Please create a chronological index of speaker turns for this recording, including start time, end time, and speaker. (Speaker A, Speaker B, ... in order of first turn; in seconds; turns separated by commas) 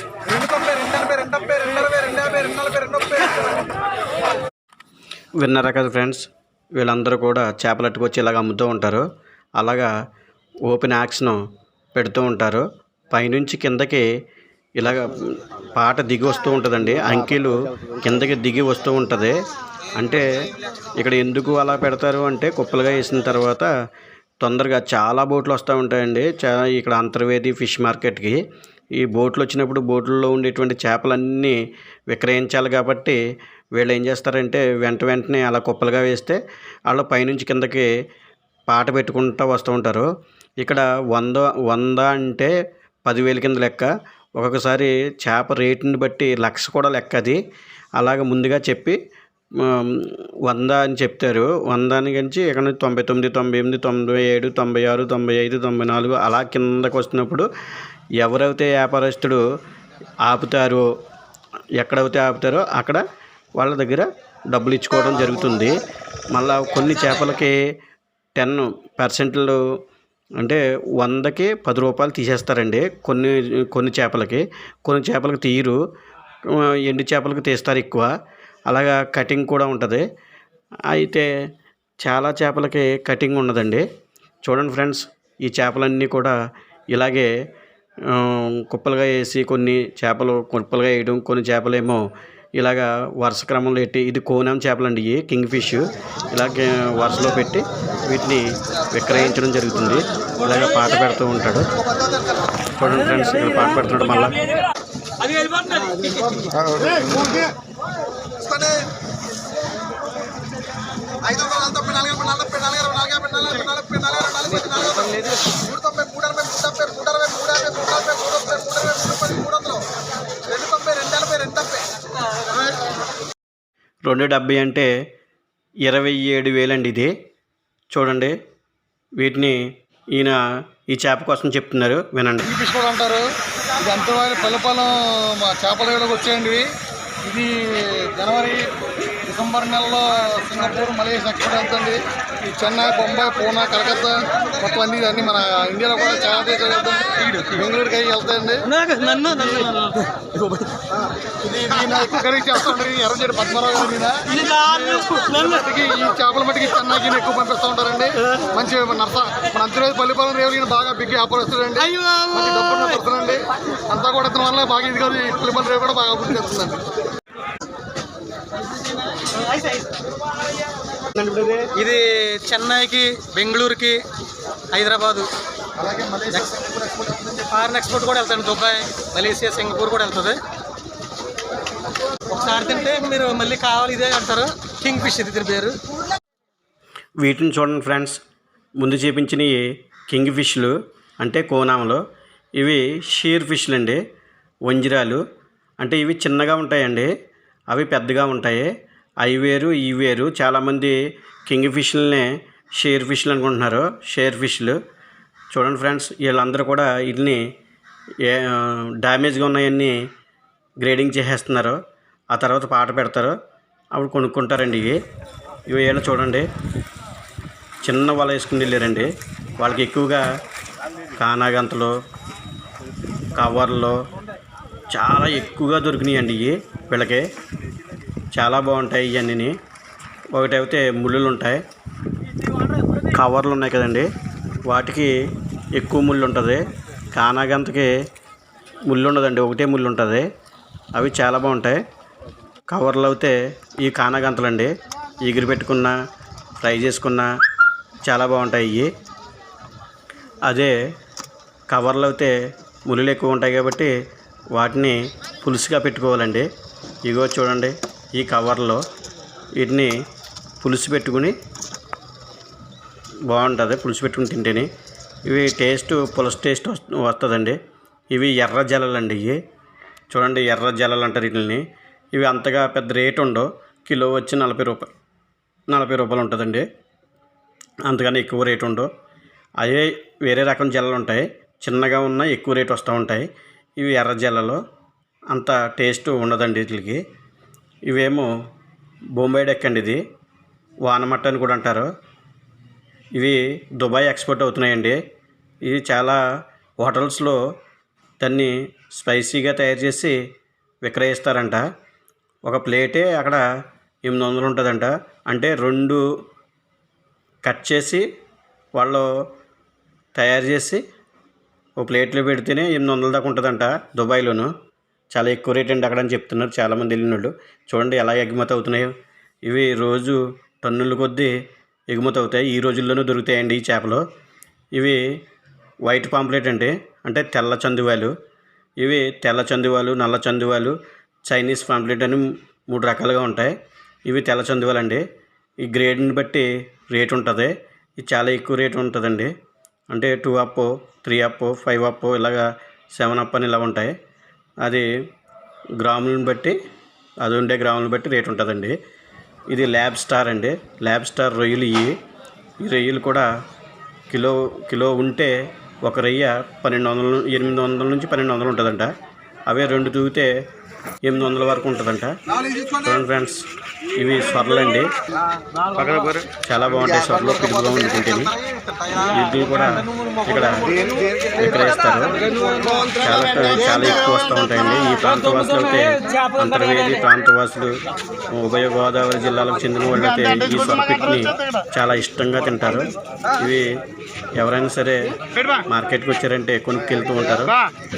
Speaker A: 0.3-3.4, Speaker B: 5.4-9.1, Speaker B: 9.6-9.9, Speaker B: 10.7-11.4, Speaker B: 11.9-14.1, Speaker B: 14.8-19.4, Speaker B: 20.0-20.2, Speaker B: 21.0-23.7, Speaker B: 24.4-28.4, Speaker B: 29.0-31.6, Speaker B: 32.1-33.2, Speaker B: 33.8-37.9, Speaker B: 38.7-40.1, Speaker B: 40.6-42.5, Speaker B: 43.1-47.4, Speaker B: 48.0-49.0, Speaker B: 49.6-57.5, Speaker B: 58.2-59.4, Speaker B: 60.2-60.9, Speaker B: 61.8-63.0, Speaker B: 63.6-65.8, Speaker B: 66.3-67.6, Speaker B: 68.4-69.6, Speaker B: 70.4-75.8, Speaker B: 76.5-78.1, Speaker B: 78.7-80.0, Speaker B: 80.9-81.3, Speaker B: 82.0-83.8, Speaker B: 84.4-86.3, Speaker B: 86.9-87.3, Speaker B: 88.1-92.0, Speaker B: 92.6-101.7, Speaker B: 102.8-104.4, Speaker C: 108.4-108.9, Speaker A: 111.3-119.8, Speaker C: 111.3-112.3, Speaker C: 113.5-115.7, Speaker A: 120.5-121.9, Speaker B: 124.1-124.9, Speaker B: 125.8-127.1, Speaker B: 127.9-128.3, Speaker B: 129.2-132.5, Speaker C: 132.5-133.2, Speaker C: 133.8-136.7, Speaker C: 137.2-138.7, Speaker C: 139.3-148.7, Speaker D: 148.7-150.6, Speaker C: 151.4-166.8, Speaker D: 154.3-155.4, Speaker D: 161.8-162.9, Speaker D: 169.2-169.9, Speaker D: 171.2-174.0, Speaker D: 174.7-175.3, Speaker C: 175.8-177.3, Speaker D: 177.3-180.3, Speaker D: 182.3-185.8, Speaker B: 187.2-188.2, Speaker B: 188.8-192.0, Speaker B: 192.6-194.0, Speaker B: 194.7-195.2, Speaker B: 195.8-197.1, Speaker B: 197.7-198.7, Speaker B: 199.2-204.8, Speaker B: 205.5-207.4, Speaker B: 208.2-209.9, Speaker B: 210.8-211.8, Speaker B: 212.3-213.3, Speaker B: 213.9-215.0, Speaker B: 215.7-216.5, Speaker B: 217.8-220.2, Speaker B: 221.2-221.9, Speaker B: 223.3-224.0, Speaker B: 224.9-227.3, Speaker B: 228.3-229.5, Speaker B: 230.3-231.6, Speaker B: 233.0-234.1, Speaker B: 234.7-235.1, Speaker B: 235.8-237.9, Speaker B: 238.9-240.3, Speaker B: 240.9-241.8, Speaker B: 242.7-244.7, Speaker B: 245.2-246.0, Speaker B: 246.6-247.3, Speaker B: 248.0-248.9, Speaker B: 250.4-250.7, Speaker B: 251.7-252.3, Speaker B: 252.9-253.9, Speaker B: 254.5-256.5, Speaker B: 257.1-258.8, Speaker B: 259.6-259.9, Speaker B: 260.6-261.4, Speaker B: 263.3-264.7, Speaker B: 265.3-267.6, Speaker B: 268.1-269.4, Speaker B: 270.1-274.9, Speaker B: 275.7-276.6, Speaker B: 277.9-278.9, Speaker B: 279.6-283.3, Speaker B: 283.8-284.6, Speaker B: 285.3-287.0, Speaker B: 287.9-288.3, Speaker B: 289.2-290.0, Speaker B: 290.9-291.9, Speaker B: 293.2-295.0, Speaker B: 295.7-296.2, Speaker B: 296.8-297.4, Speaker B: 298.2-300.2, Speaker B: 300.8-301.6, Speaker B: 302.5-303.4, Speaker B: 304.1-306.0, Speaker B: 307.4-308.0, Speaker B: 308.8-309.1, Speaker B: 310.1-310.8, Speaker B: 311.8-314.5, Speaker B: 315.1-318.9, Speaker B: 319.5-321.3, Speaker B: 321.9-324.0, Speaker B: 324.7-325.0, Speaker B: 325.9-328.1, Speaker B: 328.8-330.8, Speaker B: 331.3-333.5, Speaker B: 334.1-335.0, Speaker B: 335.6-339.3, Speaker B: 339.9-343.9, Speaker B: 345.8-346.6, Speaker B: 347.2-348.8, Speaker B: 349.5-352.0, Speaker B: 352.6-353.3, Speaker B: 354.1-358.9, Speaker B: 359.5-360.3, Speaker B: 361.0-362.1, Speaker B: 362.7-363.4, Speaker B: 364.0-364.9, Speaker B: 365.8-368.4, Speaker B: 368.9-370.7, Speaker B: 371.3-372.2, Speaker B: 372.9-377.8, Speaker B: 378.3-383.7, Speaker B: 384.4-387.6